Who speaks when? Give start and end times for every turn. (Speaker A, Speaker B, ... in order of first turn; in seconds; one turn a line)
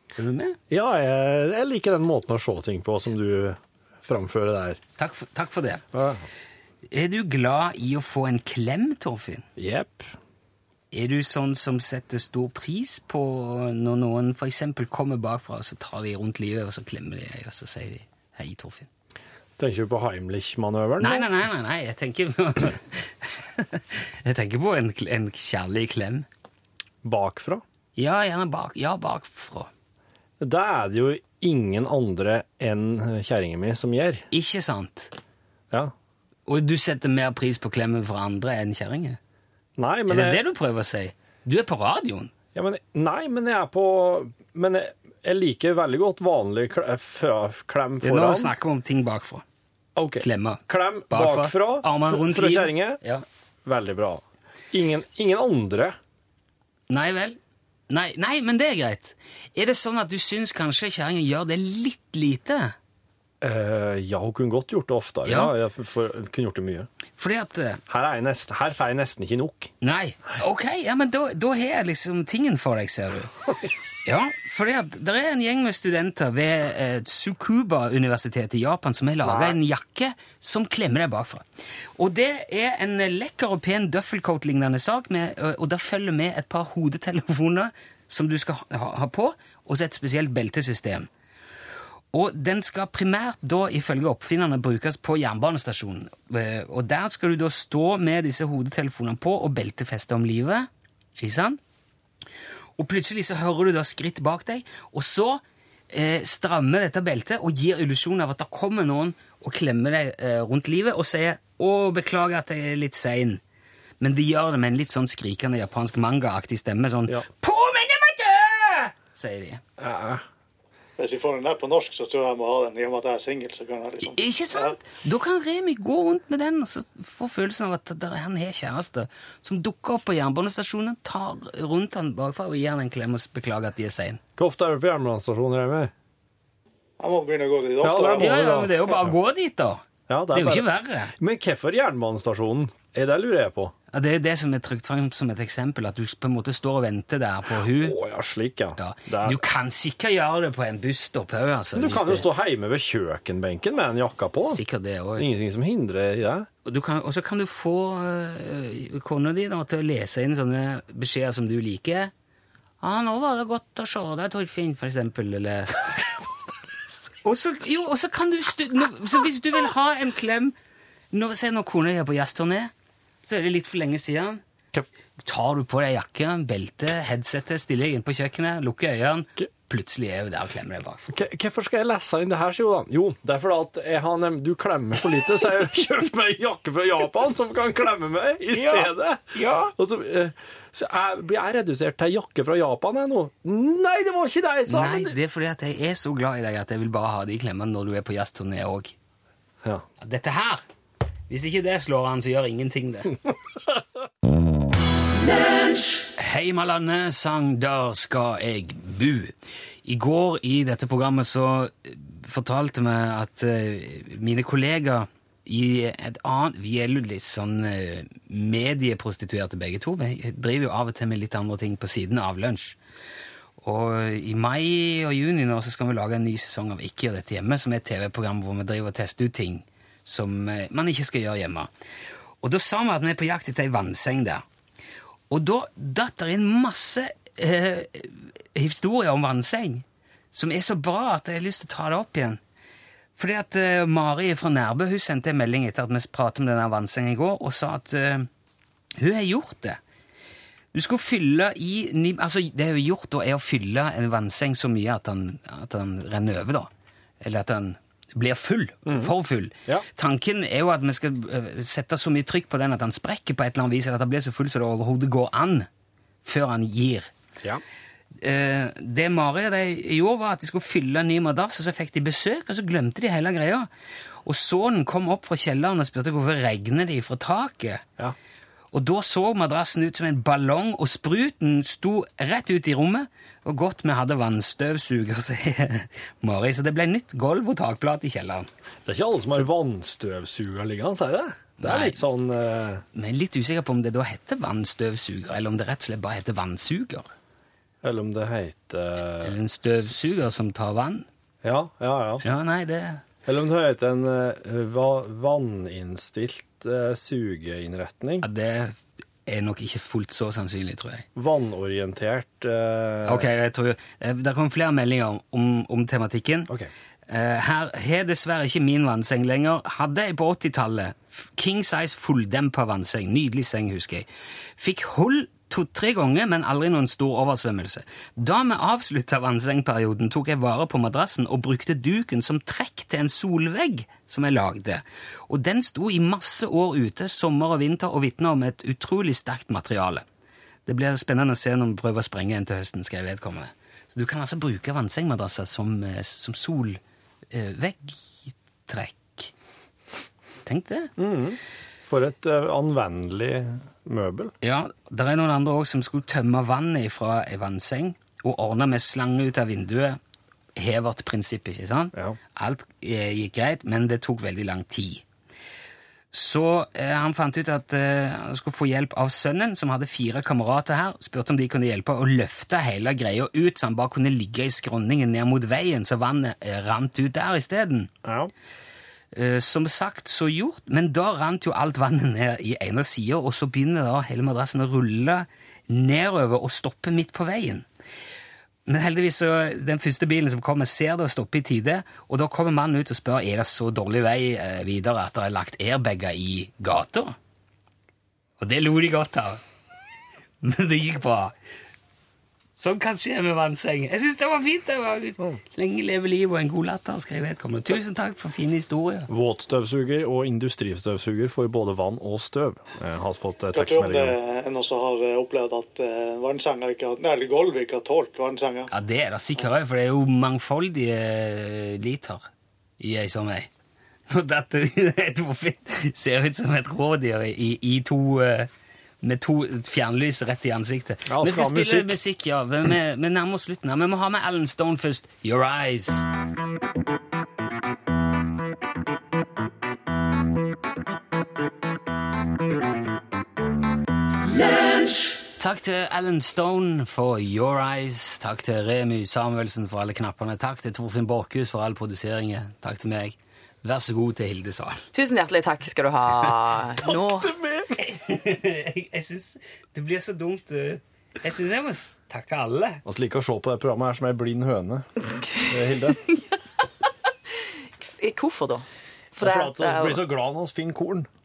Speaker A: 0.1-0.6
Speaker B: 0.7-4.8
Speaker A: 5.0-5.8
Speaker B: 5.9-6.2
Speaker A: 6.9-9.4
Speaker B: 9.6-10.1
Speaker A: 10.9-18.9
Speaker B: 19.6-21.3
Speaker A: 21.0-26.3
Speaker B: 27.0-27.6
Speaker A: 27.9-29.7
Speaker B: 30.4-34.2
Speaker A: 34.3-35.1
Speaker A: 36.5-39.2
Speaker B: 39.8-40.4
Speaker A: 40.1-42.3
Speaker B: 42.5-48.5
Speaker A: 48.0-49.4
Speaker B: 50.0-53.0
Speaker A: 50.2-53.2
Speaker B: 53.6-56.0
Speaker A: 56.9-57.4
Speaker A: 57.9-62.7
Speaker B: 63.4-66.9
Speaker A: 65.2-65.5
Speaker A: 67.2-67.8
Speaker B: 67.9-69.7
Speaker A: 69.8-73.3
Speaker A: 74.0-81.4
Speaker B: 79.2-79.5
Speaker A: 82.0-91.1
Speaker A: 92.1-100.7
Speaker A: 101.2-101.6
Speaker A: 102.8-113.4
Speaker A: 114.0-119.6
Speaker B: 119.8-120.2
Speaker C: 121.0-124.8
Speaker A: 124.1-134.2
Speaker B: 134.4-135.9
Speaker C: 137.0-138.3
Speaker B: 137.8-139.1
Speaker A: 138.2-141.1
Speaker B: 140.1-143.7
Speaker A: 143.9-148.0
Speaker B: 147.6-149.4
Speaker A: 148.8-152.2
Speaker B: 151.7-154.6
Speaker A: 154.4-155.3
Speaker B: 155.2-156.5
Speaker A: 156.6-162.1
Speaker A: 162.8-165.8
Speaker A: 167.2-170.5
Speaker A: 171.1-172.7
Speaker A: 173.2-174.4
Speaker A: 175.2-181.1
Speaker B: 181.1-195.2
Speaker A: 188.5-189.7
Speaker A: 194.7-198.9
Speaker A: 200.0-200.6
Speaker A: 201.3-203.2
Speaker A: 206.1-209.3
Speaker A: 209.8-222.8
Speaker A: 223.6-231.7
Speaker A: 232.4-234.4
Speaker A: 235.3-242.4
Speaker A: 243.2-248.3
Speaker A: 249.0-249.8
Speaker A: 250.7-256.7
Speaker A: 257.2-265.7
Speaker B: 258.9-259.1
Speaker A: 266.2-267.1
Speaker A: 268.2-273.7
Speaker A: 274.2-277.9
Speaker A: 278.7-288.5
Speaker B: 288.9-292.8
Speaker A: 291.6-292.0
Speaker A: 292.9-297.1
Speaker B: 297.8-299.4
Speaker A: 299.2-301.1
Speaker B: 301.4-302.2
Speaker A: 302.2-303.0
Speaker B: 303.2-308.2
Speaker A: 308.2-311.1
Speaker B: 311.1-313.3
Speaker A: 313.0-316.5
Speaker A: 317.1-324.1
Speaker A: 324.6-340.0
Speaker A: 340.6-346.8
Speaker A: 347.3-349.3
Speaker A: 350.4-350.9
Speaker B: 351.0-354.3
Speaker A: 354.4-360.0
Speaker A: 360.6-365.0
Speaker A: 366.1-377.9
Speaker B: 378.0-378.3
Speaker A: 379.1-387.6
Speaker A: 388.6-397.1
Speaker A: 398.4-399.4
Speaker A: 400.4-401.3
Speaker A: 402.6-409.1
Speaker B: 409.1-414.2
Speaker C: 413.5-418.7
Speaker A: 418.7-422.3
Speaker A: 422.8-423.5
Speaker A: 424.1-428.5
Speaker A: 429.0-436.0
Speaker B: 431.1-432.0
Speaker A: 445.3-454.8
Speaker D: 454.9-457.3
Speaker B: 457.0-457.8
Speaker A: 457.8-462.8
Speaker B: 462.8-464.9
Speaker B: 465.4-466.0
Speaker D: 468.0-468.6
Speaker D: 469.1-470.1
Speaker B: 469.2-471.1